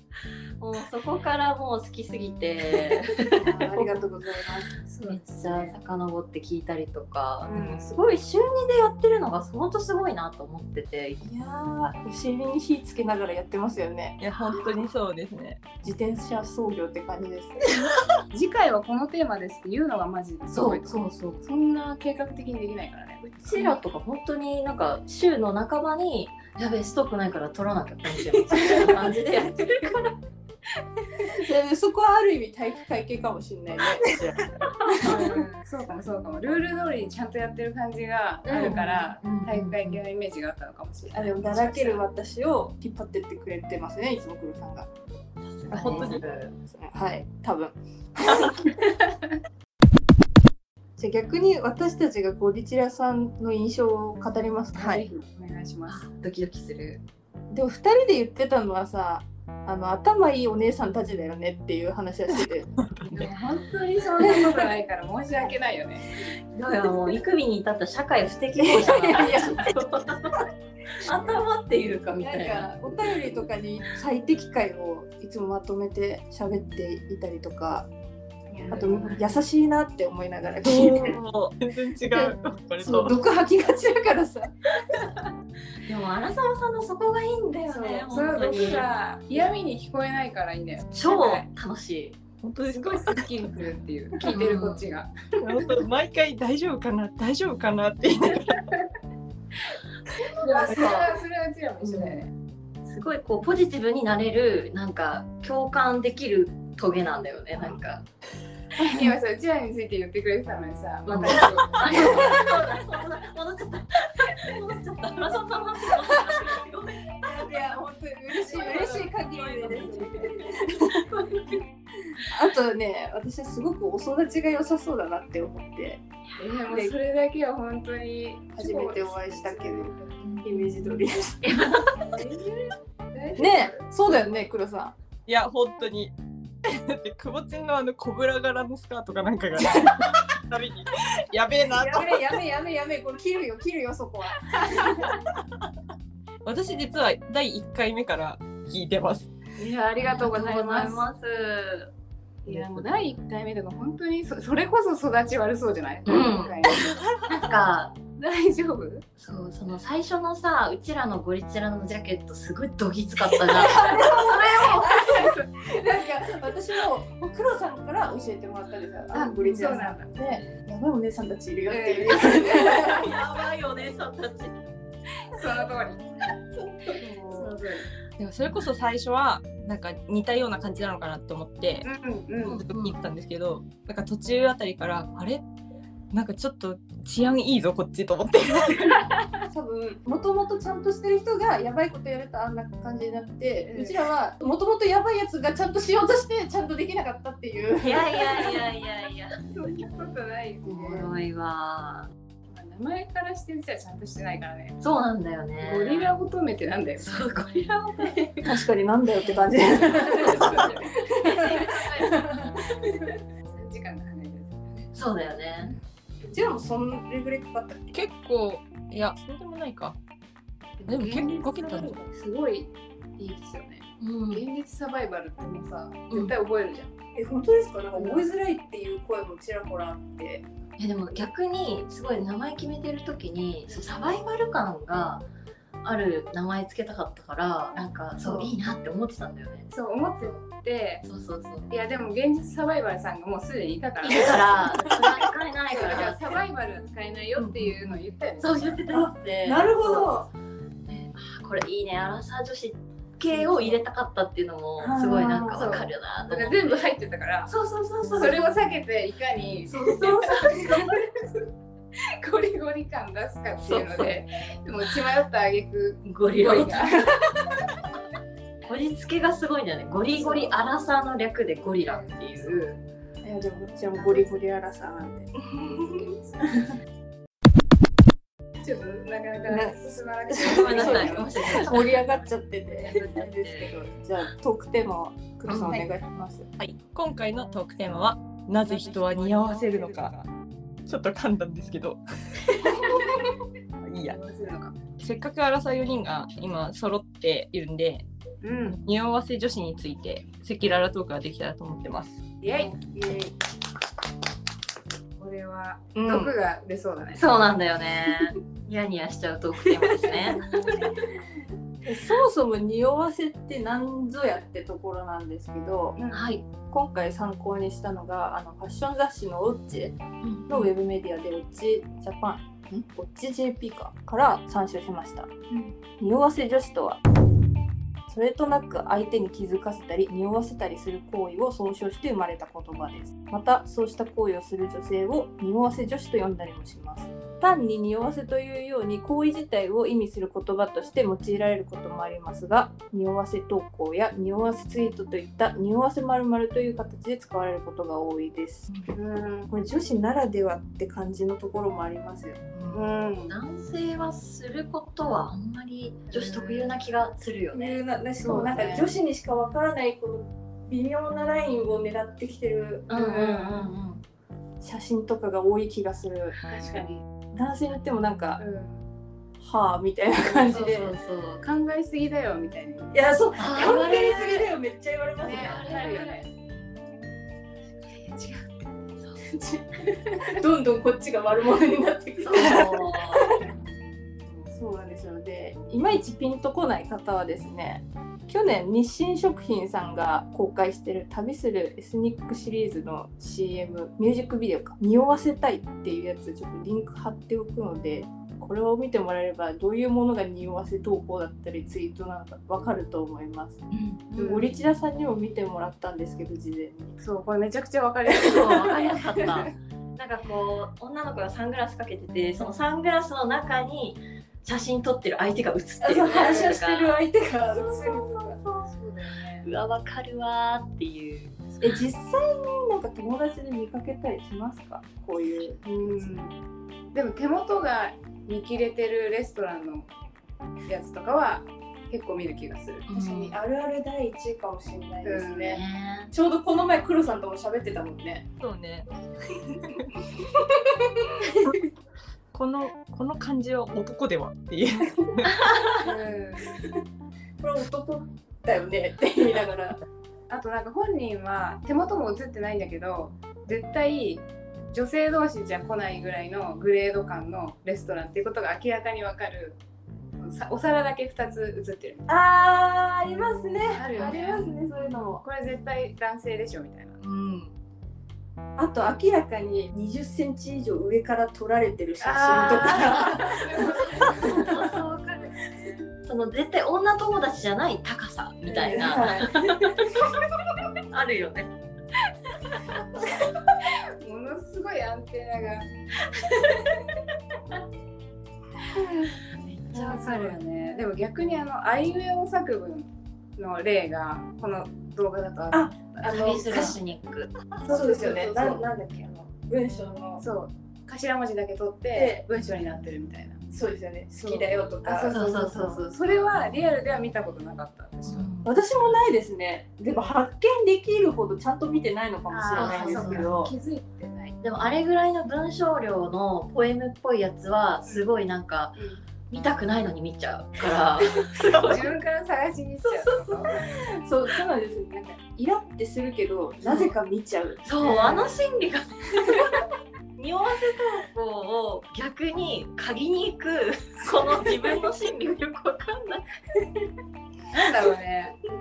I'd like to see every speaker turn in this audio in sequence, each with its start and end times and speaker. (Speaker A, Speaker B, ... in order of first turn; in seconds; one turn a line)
Speaker A: 0.6-3.9
Speaker B: 3.2-4.7
Speaker C: 4.8-5.8
Speaker A: 5.0-11.3
Speaker C: 7.5-8.0
Speaker B: 11.2-14.2
Speaker D: 14.2-15.8
Speaker B: 15.8-17.7
Speaker C: 18.3-23.8
Speaker A: 20.5-21.4
Speaker A: 23.4-30.1
Speaker B: 28.6-29.1
Speaker B: 31.2-35.4
Speaker C: 34.9-42.0
Speaker A: 38.5-40.0
Speaker B: 38.5-38.9
Speaker B: 41.1-44.9
Speaker A: 45.6-46.5
Speaker D: 45.7-46.2
Speaker B: 45.7-48.8
Speaker B: 51.0-55.0
Speaker C: 54.8-56.1
Speaker A: 55.9-57.0
Speaker B: 57.5-62.8
Speaker D: 62.8-63.3
Speaker C: 63.1-66.1
Speaker B: 64.2-64.5
Speaker A: 66.5-72.7
Speaker B: 68.6-69.9
Speaker B: 72.2-77.9
Speaker C: 78.5-79.2
Speaker A: 78.6-79.4
Speaker B: 78.7-81.2
Speaker D: 80.6-83.2
Speaker B: 82.1-84.8
Speaker A: 85.8-88.9
Speaker C: 87.7-91.5
Speaker B: 88.3-88.8
Speaker A: 90.9-92.2
Speaker D: 92.4-93.4
Speaker C: 92.7-95.7
Speaker A: 94.3-94.9
Speaker D: 95.4-98.7
Speaker C: 100.2-102.3
Speaker A: 100.4-101.1
Speaker A: 101.8-102.2
Speaker A: 102.8-108.1
Speaker B: 108.8-109.1
Speaker C: 108.8-112.5
Speaker A: 111.1-117.0
Speaker B: 117.2-121.1
Speaker C: 118.4-120.9
Speaker B: 122.2-126.0
Speaker C: 126.4-130.2
Speaker B: 126.7-127.0
Speaker B: 128.6-131.8
Speaker D: 130.3-130.9
Speaker A: 131.4-132.1
Speaker C: 132.1-133.8
Speaker B: 133.4-134.9
Speaker D: 135.3-136.1
Speaker D: 136.7-142.3
Speaker B: 139.6-140.0
Speaker B: 141.7-145.0
Speaker C: 144.5-145.2
Speaker D: 146.4-149.3
Speaker C: 149.6-151.1
Speaker A: 150.0-151.9
Speaker C: 152.4-157.0
Speaker A: 152.5-153.1
Speaker A: 156.1-158.0
Speaker C: 158.2-159.1
Speaker A: 159.2-164.1
Speaker B: 163.6-173.1
Speaker C: 163.6-166.1
Speaker C: 169.1-170.1
Speaker A: 169.4-169.8
Speaker C: 171.7-173.1
Speaker A: 172.7-174.5
Speaker C: 175.3-176.0
Speaker B: 176.9-177.6
Speaker C: 177.2-177.9
Speaker D: 178.2-181.9
Speaker C: 181.8-182.7
Speaker D: 182.4-185.4
Speaker A: 182.7-183.0
Speaker D: 186.1-189.1
Speaker B: 189.5-198.6
Speaker C: 193.7-194.1
Speaker A: 197.8-199.4
Speaker C: 199.5-201.1
Speaker A: 200.7-202.1
Speaker C: 202.5-204.8
Speaker A: 204.8-206.1
Speaker C: 205.6-207.2
Speaker A: 207.0-208.4
Speaker C: 208.0-208.4
Speaker B: 208.4-213.2
Speaker A: 209.1-210.7
Speaker C: 210.0-214.9
Speaker A: 214.9-215.8
Speaker B: 216.3-218.0
Speaker D: 217.9-220.0
Speaker C: 220.8-226.9
Speaker D: 220.8-222.0
Speaker B: 221.2-222.0
Speaker A: 224.0-224.4
Speaker B: 227.2-230.4
Speaker C: 228.0-228.3
Speaker A: 230.8-235.3
Speaker C: 233.7-234.2
Speaker A: 235.8-239.7
Speaker C: 237.8-238.5
Speaker C: 239.7-241.0
Speaker A: 241.0-241.7
Speaker C: 241.7-248.8
Speaker A: 244.0-246.4
Speaker A: 247.4-250.1
Speaker B: 248.9-250.3
Speaker A: 250.9-256.9
Speaker C: 253.3-253.8
Speaker B: 254.8-255.7
Speaker C: 255.5-257.5
Speaker A: 257.5-258.5
Speaker C: 258.1-261.4
Speaker A: 259.7-260.5
Speaker B: 259.8-261.0
Speaker C: 262.0-267.4
Speaker A: 263.6-264.1
Speaker A: 266.0-267.1
Speaker A: 268.6-272.8
Speaker C: 270.1-270.6
Speaker C: 271.8-272.8
Speaker B: 273.2-276.7
Speaker C: 274.0-274.4
Speaker C: 275.8-276.8
Speaker C: 278.6-281.8
Speaker B: 279.5-286.5
Speaker A: 280.4-282.0
Speaker A: 282.8-283.7
Speaker A: 285.5-285.9
Speaker D: 286.6-290.3
Speaker C: 288.8-290.1
Speaker D: 290.9-293.2
Speaker C: 292.6-293.3
Speaker D: 293.9-294.2
Speaker C: 294.0-294.8
Speaker D: 295.0-298.1
Speaker C: 298.4-298.8
Speaker D: 298.6-302.2
Speaker C: 302.4-303.3
Speaker C: 305.2-307.3
Speaker B: 305.9-306.3
Speaker A: 307.1-310.5
Speaker B: 311.8-316.0
Speaker C: 316.0-316.3
Speaker A: 316.1-316.4
Speaker B: 316.7-325.3
Speaker A: 320.2-320.7
Speaker C: 325.5-325.8
Speaker B: 326.0-327.0
Speaker B: 328.1-348.7
Speaker C: 348.9-349.5
Speaker B: 349.5-352.4
Speaker A: 352.5-358.6
Speaker C: 352.7-353.4
Speaker C: 356.1-356.8
Speaker B: 357.5-362.9
Speaker C: 358.2-358.9
Speaker A: 362.9-364.0
Speaker C: 362.9-363.7
Speaker B: 364.6-366.4
Speaker C: 366.4-367.1
Speaker B: 367.3-368.4
Speaker C: 368.4-368.9
Speaker B: 369.4-370.9
Speaker A: 370.4-371.4
Speaker C: 371.4-372.9
Speaker B: 372.9-375.8
Speaker A: 373.4-374.5
Speaker C: 375.2-376.3
Speaker A: 375.3-376.2
Speaker C: 377.8-379.0
Speaker B: 379.2-383.5
Speaker A: 382.2-383.3
Speaker B: 384.5-407.0
Speaker A: 403.7-404.0
Speaker C: 404.2-404.5
Speaker C: 407.0-409.0
Speaker A: 408.1-417.0
Speaker B: 415.8-418.4
Speaker C: 416.1-416.6
Speaker C: 417.5-419.5
Speaker A: 419.4-421.5
Speaker B: 421.6-425.6
Speaker C: 425.6-426.4
Speaker C: 426.9-429.9
Speaker C: 430.7-433.1
Speaker A: 432.9-433.4
Speaker B: 432.9-438.3
Speaker C: 435.0-435.6
Speaker A: 435.4-436.1
Speaker D: 438.4-439.9
Speaker B: 440.2-441.6
Speaker D: 442.3-445.6
Speaker C: 445.7-446.6
Speaker B: 447.4-449.8
Speaker C: 450.3-459.6
Speaker C: 460.2-462.1
Speaker B: 462.1-465.2
Speaker C: 463.7-467.0
Speaker A: 467.1-467.5
Speaker B: 468.6-474.8
Speaker C: 472.0-475.5
Speaker A: 474.0-475.3
Speaker A: 476.0-480.1
Speaker B: 478.5-480.1
Speaker A: 480.8-481.5
Speaker C: 484.0-485.7
Speaker A: 486.2-486.8
Speaker A: 489.4-490.4
Speaker C: 489.7-496.8
Speaker B: 495.5-496.8
Speaker A: 496.0-497.3
Speaker C: 497.6-498.7
Speaker B: 497.6-500.2
Speaker C: 500.2-503.5
Speaker B: 501.9-502.2
Speaker B: 503.5-505.2
Speaker C: 504.2-508.3
Speaker A: 505.1-505.9
Speaker A: 508.1-508.6
Speaker B: 508.4-513.5
Speaker C: 509.9-510.1
Speaker C: 512.3-514.4
Speaker A: 512.6-513.3
Speaker A: 514.4-518.8
Speaker C: 518.8-519.0
Speaker A: 519.3-522.0
Speaker C: 521.5-523.7
Speaker B: 523.1-527.6
Speaker A: 526.6-526.9
Speaker A: 527.6-529.6
Speaker C: 527.8-528.3
Speaker A: 530.2-536.3
Speaker C: 537.5-538.4